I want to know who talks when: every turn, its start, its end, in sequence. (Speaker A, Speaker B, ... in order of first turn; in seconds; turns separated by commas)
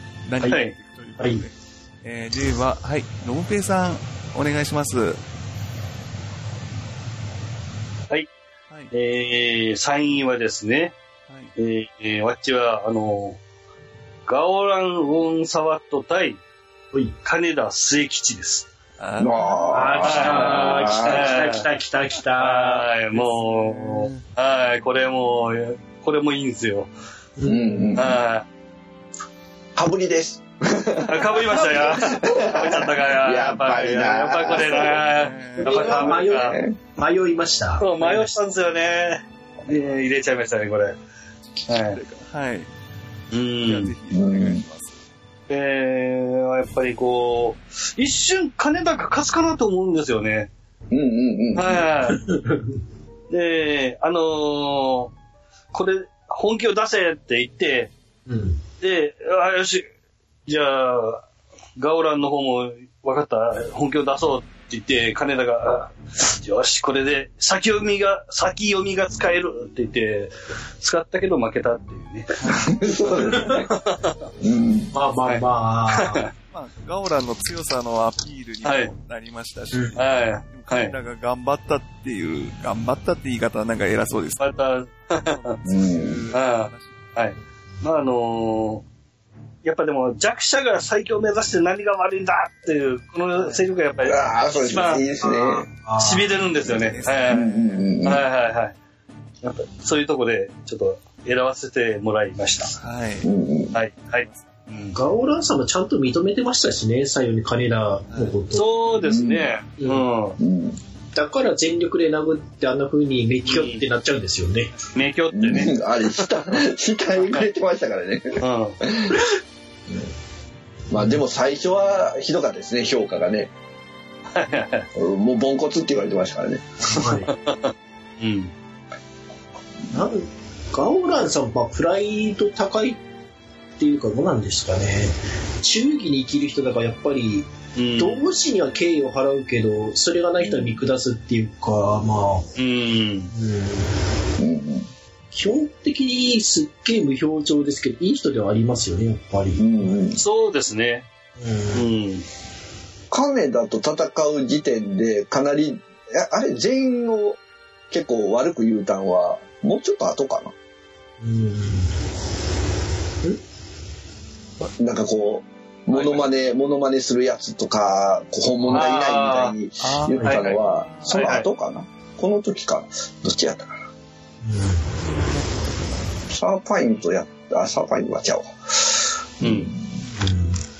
Speaker A: 0.2-5.2, Speaker B: 0.5-0.7, Speaker C: 1.2-1.4, Speaker B: 8.9-10.9, Speaker B: 11.6-13.4, Speaker B: 14.3-16.4, Speaker B: 17.2-18.6, Speaker A: 19.0-19.6, Speaker D: 19.2-21.3, Speaker C: 19.7-22.9, Speaker B: 20.0-21.7, Speaker B: 22.3-26.9, Speaker A: 23.1-24.1, Speaker C: 27.4-27.9, Speaker D: 27.4-28.2, Speaker B: 27.9-28.4, Speaker D: 29.8-35.0, Speaker B: 31.0-36.6, Speaker A: 35.0-36.1, Speaker C: 35.6-38.4, Speaker D: 36.2-36.8, Speaker B: 37.8-41.0, Speaker A: 39.6-40.1, Speaker A: 41.6-42.7, Speaker B: 41.7-42.0, Speaker B: 43.3-43.9, Speaker A: 43.6-45.0, Speaker D: 44.1-44.6, Speaker B: 45.5-50.5, Speaker D: 50.9-51.9, Speaker B: 51.5-52.2, Speaker C: 52.1-52.8, Speaker B: 53.3-55.1, Speaker B: 55.7-57.9, Speaker C: 58.3-58.6, Speaker B: 58.8-59.9, Speaker B: 60.5-61.2, Speaker B: 61.8-72.3, Speaker A: 72.4-73.7, Speaker D: 72.5-73.7, Speaker B: 73.3-74.2, Speaker D: 74.4-74.9, Speaker C: 74.9-76.2, Speaker B: 75.2-76.3, Speaker A: 76.5-84.5, Speaker B: 78.6-78.9, Speaker B: 80.0-80.9, Speaker B: 84.4-85.5, Speaker A: 85.2-87.1, Speaker D: 85.6-86.2, Speaker B: 86.3-88.8, Speaker B: 89.6-95.0, Speaker A: 93.3-94.0, Speaker D: 94.0-95.7, Speaker C: 95.2-96.4, Speaker B: 96.0-97.5, Speaker A: 96.6-97.9, Speaker D: 97.2-98.2, Speaker B: 98.0-98.8, Speaker B: 99.4-102.8, Speaker A: 102.8-103.3, Speaker D: 103.2-103.8, Speaker B: 103.7-105.0, Speaker A: 104.2-104.5, Speaker C: 104.9-108.7, Speaker A: 108.1-108.4, Speaker B: 108.5-110.4, Speaker D: 108.9-109.5, Speaker C: 109.8-110.0, Speaker D: 110.4-110.8, Speaker C: 111.1-114.7, Speaker B: 113.4-113.8, Speaker B: 114.9-116.3, Speaker D: 115.3-119.2, Speaker B: 118.4-118.8, Speaker D: 120.9-123.5, Speaker C: 120.9-121.2, Speaker B: 124.3-124.9, Speaker D: 124.9-126.9, Speaker B: 126.8-128.5, Speaker C: 126.9-127.3, Speaker C: 129.9-133.0, Speaker C: 133.8-142.5, Speaker B: 137.7-138.2, Speaker D: 140.4-140.8, Speaker B: 142.6-143.3, Speaker C: 143.3-143.9, Speaker D: 144.4-144.9, Speaker C: 145.3-150.0, Speaker D: 149.6-150.2, Speaker B: 150.2-151.1, Speaker C: 151.4-151.8, Speaker B: 151.7-152.2, Speaker D: 153.1-157.4, Speaker D: 157.9-160.5, Speaker C: 161.2-161.9, Speaker D: 164.8-173.7, Speaker B: 165.9-166.3, Speaker B: 168.7-169.5, Speaker A: 169.8-171.3, Speaker C: 170.1-170.4, Speaker B: 171.1-171.4, Speaker C: 174.4-174.9, Speaker A: 174.9-176.2, Speaker D: 176.3-179.9, Speaker B: 179.4-179.7, Speaker C: 180.2-180.6